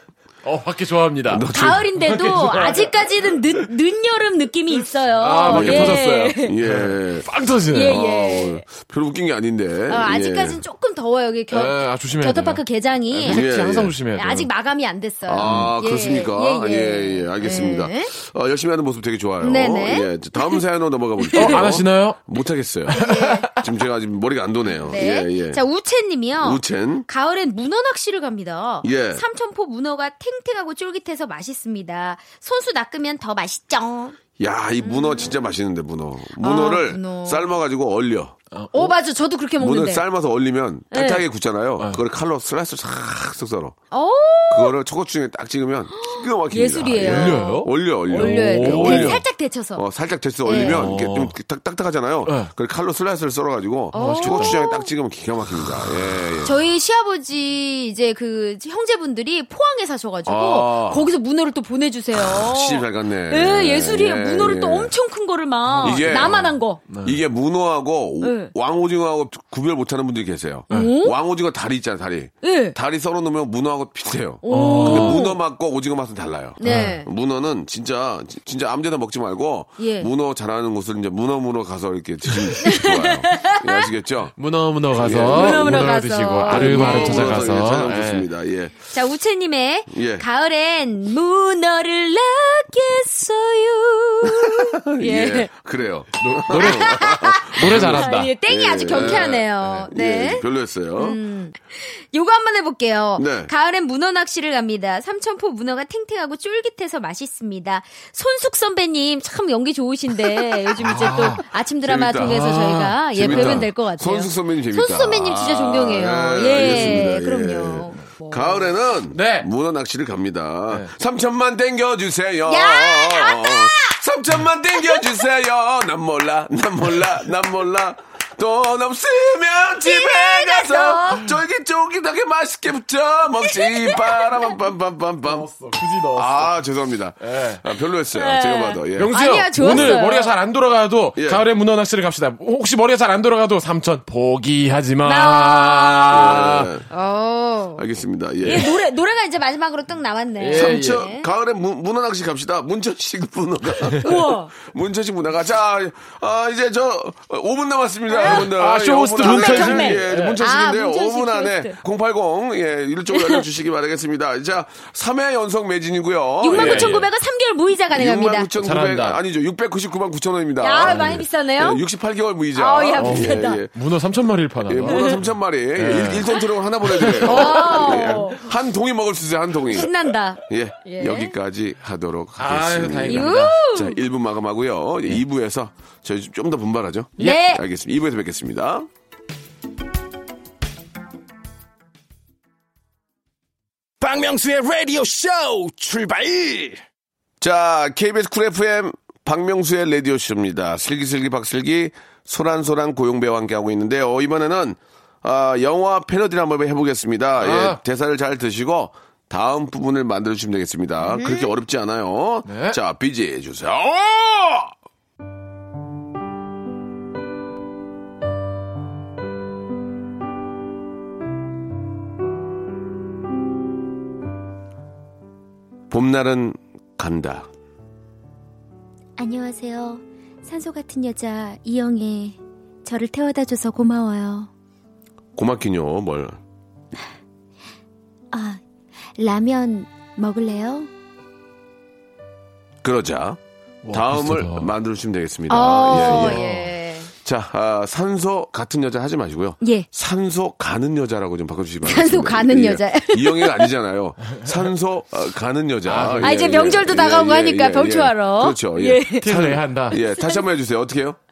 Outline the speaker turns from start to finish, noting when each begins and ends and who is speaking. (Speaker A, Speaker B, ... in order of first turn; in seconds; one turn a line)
Speaker A: 0.4-3.1
Speaker B: 1.3-1.9
Speaker C: 1.5-6.5
Speaker A: 5.2-8.0
Speaker B: 5.5-7.3
Speaker C: 7.7-8.6
Speaker B: 7.8-10.6
Speaker C: 9.9-13.5
Speaker A: 11.5-14.5
Speaker B: 13.3-14.0
Speaker C: 14.2-18.1
Speaker B: 15.3-25.6
Speaker A: 15.4-15.7
Speaker C: 19.4-20.6
Speaker C: 21.2-21.6
Speaker A: 21.4-22.2
Speaker C: 22.9-23.5
Speaker A: 22.9-23.6
Speaker C: 24.8-34.2
Speaker B: 26.4-27.1
Speaker B: 28.8-29.2
Speaker B: 34.4-38.4
Speaker C: 34.8-35.4
Speaker C: 36.4-37.5
Speaker A: 38.5-38.9
Speaker C: 38.7-40.0
Speaker B: 39.6-43.8
Speaker C: 40.9-41.2
Speaker C: 43.9-44.8
Speaker B: 44.5-56.5
Speaker C: 45.9-49.8
Speaker A: 47.0-49.2
Speaker C: 50.4-50.8
Speaker A: 50.5-51.4
Speaker A: 52.3-52.5
Speaker A: 53.9-54.6
Speaker C: 53.9-54.9
Speaker C: 56.4-66.8
Speaker B: 60.3-61.0
Speaker B: 62.1-64.9
Speaker A: 65.7-67.2
Speaker B: 65.8-66.4
Speaker B: 67.0-84.3
Speaker C: 68.2-68.5
Speaker C: 70.7-71.2
Speaker C: 72.4-72.8
Speaker C: 74.4-75.4
Speaker A: 74.5-75.2
Speaker C: 76.6-77.1
Speaker A: 76.6-77.0
Speaker C: 79.8-80.1
Speaker C: 82.6-83.9
Speaker A: 84.4-88.3
Speaker B: 84.9-86.0
Speaker C: 85.2-87.5
Speaker B: 86.5-88.8
Speaker C: 88.9-95.5
Speaker B: 89.9-90.3
Speaker B: 94.3-101.2
Speaker A: 96.2-98.3
Speaker C: 96.5-118.7
Speaker A: 98.9-99.8
Speaker B: 103.2-103.5
Speaker A: 110.8-111.4
Speaker B: 111.8-135.5
Speaker A: 112.2-113.7
Speaker A: 119.1-119.5
Speaker C: 122.5-124.0
Speaker C: 124.7-125.2
Speaker C: 129.8-131.3
Speaker C: 133.4-134.4
Speaker A: 135.2-136.5
Speaker B: 136.1-140.0
Speaker A: 137.2-137.6
Speaker C: 138.1-140.3
Speaker A: 139.0-146.7
Speaker B: 141.2-141.4
Speaker C: 145.0-146.1
Speaker B: 146.1-146.8
Speaker C: 146.9-147.8
Speaker B: 147.8-148.8
Speaker C: 148.4-151.3
Speaker A: 150.4-151.0
Speaker B: 150.5-167.1
Speaker C: 154.0-154.5
Speaker C: 158.1-158.5
Speaker A: 158.2-160.4
Speaker C: 159.2-161.8
Speaker C: 163.1-163.4
Speaker C: 166.4-168.5
Speaker A: 166.5-167.1
Speaker B: 167.9-173.7
Speaker A: 168.6-169.2
Speaker C: 170.6-171.8
Speaker A: 170.8-171.2
Speaker C: 172.6-173.6
Speaker A: 173.0-178.2
Speaker B: 174.7-179.9
Speaker C: 174.8-175.2
Speaker C: 177.2-178.5
Speaker C: 179.7-181.3
Speaker B: 180.4-188.9
Speaker A: 182.4-183.6
Speaker C: 183.1-184.0
Speaker C: 187.2-187.6
Speaker D: 194.0-196.8
Speaker B: 197.4-214.7
Speaker A: 207.4-207.8
Speaker C: 211.0-211.5
Speaker A: 212.5-212.8
Speaker B: 225.9-227.5
Speaker C: 229.2-234.5
Speaker B: 235.4-236.4
Speaker C: 238.3-238.6
Speaker C: 239.2-240.9
Speaker B: 242.8-243.4
Speaker A: 243.8-244.7
Speaker B: 243.9-246.4
Speaker C: 245.5-247.1
Speaker A: 245.9-246.8
Speaker B: 247.2-261.2
Speaker C: 249.6-249.9
Speaker C: 251.8-253.7
Speaker A: 255.8-256.8
Speaker C: 256.2-259.3
Speaker A: 259.2-260.0
Speaker C: 259.9-260.4